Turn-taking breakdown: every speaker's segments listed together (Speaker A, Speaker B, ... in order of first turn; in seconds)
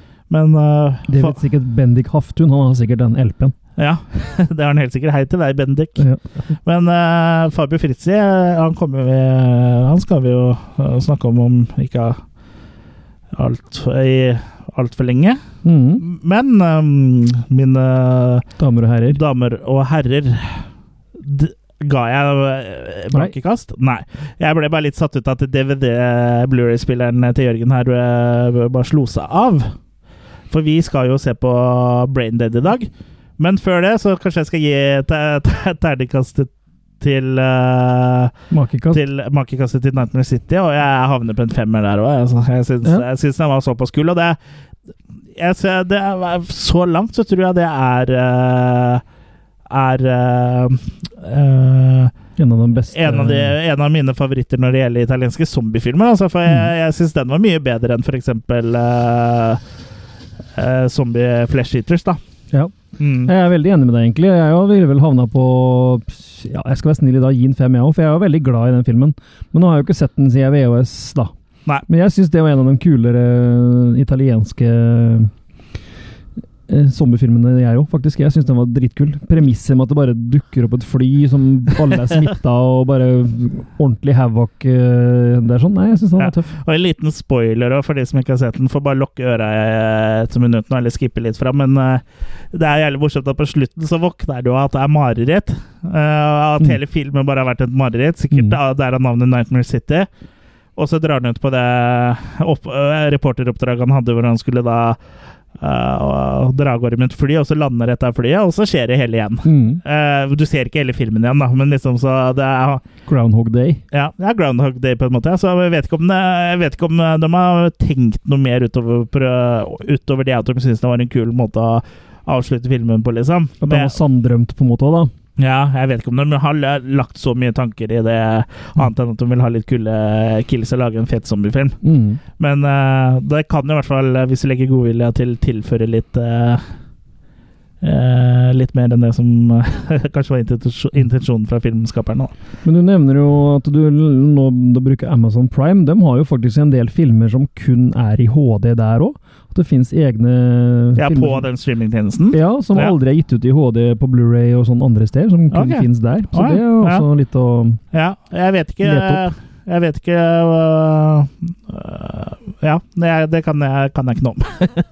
Speaker A: 0.3-1.4, 3.8-6.0, 6.6-12.2, 13.3-15.4, 16.0-18.4, 19.1-20.6, 21.2-29.7, 30.5-38.3, 38.9-44.4, 45.4-49.0, 49.7-52.1, 52.9-59.6, 60.5-62.2, 63.0-63.3, 86.2-100.1, 100.8-105.0, 105.6-112.8, 113.9-123.9, 125.4-131.8, 132.4-136.7, 137.8-142.3, 150.9-152.9, 155.5-157.0, 157.9-164.8
Speaker B: 1.1-3.5, 15.6-16.0, 18.6-19.2, 38.5-39.0, 52.4-53.5, 63.2-71.3, 71.9-75.3, 76.7-86.5, 98.3-98.6, 109.4-109.8, 113.1-113.8, 123.6-125.1, 131.8-132.2, 142.6-151.4, 152.3-157.8, 158.8-159.2